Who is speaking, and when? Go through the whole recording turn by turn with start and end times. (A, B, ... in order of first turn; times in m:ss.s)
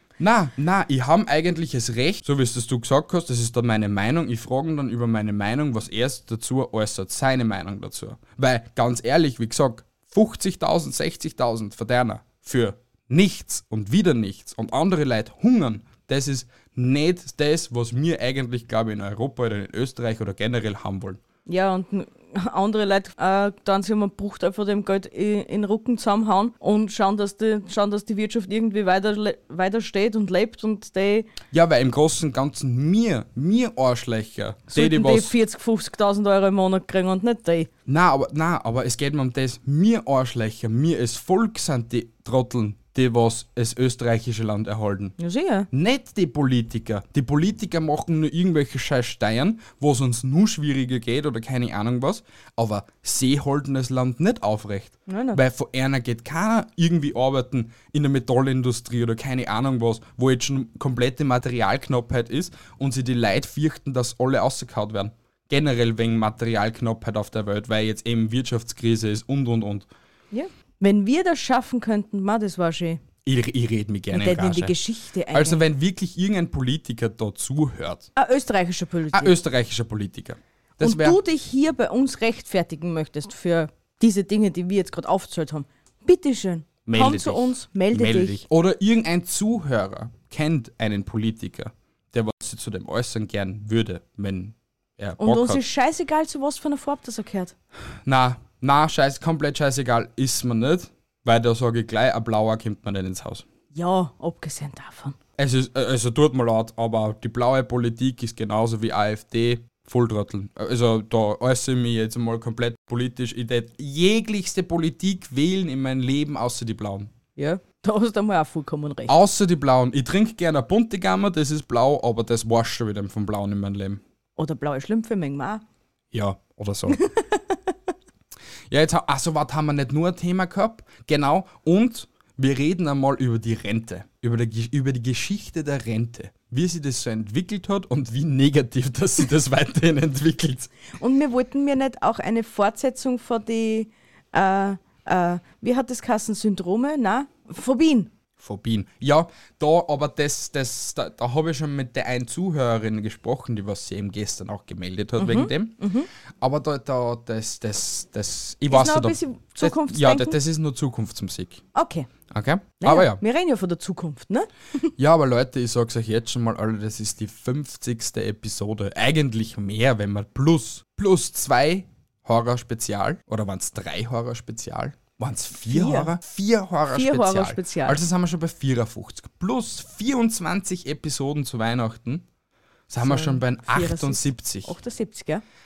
0:00.2-0:21.2 A
0:21.5-0:31.3 B
0:31.5-0:35.3 A
0:34.7-0:37.7 B
0:37.9-0:45.2 A
0:45.2-0:45.7 B
0:45.7-1:09.9 A
0:55.1-0:55.4 B
1:10.3-1:13.0 B
1:13.2-1:14.8 A
1:14.1-1:15.6 B
1:15.3-1:18.1 A
1:18.2-1:19.4 B
1:19.1-1:21.2 A
1:20.8-1:28.4 B
1:26.9-1:35.6 A
1:35.2-1:37.5 B
1:38.0-1:43.5 A
1:43.7-1:45.2 B
1:45.4-1:57.1 A
1:57.4-1:59.1 B
1:59.1-2:04.0 A
2:04.4-2:05.6 B
2:06.1-2:07.0 A
2:06.9-2:07.6 B
2:08.7-2:20.7 A
2:21.0-2:28.1 B
2:28.4-2:35.8 A
2:35.2-2:36.1 B
2:36.4-2:41.6 A
2:38.7-2:40.4 B
2:41.8-2:42.1 B
2:42.3-2:43.2 A
2:42.8-2:44.5 B
2:45.0-3:02.3 A
2:55.7-2:56.1 B
2:56.9-2:58.0 B
3:02.9-3:04.8 A
3:03.0-3:05.4 B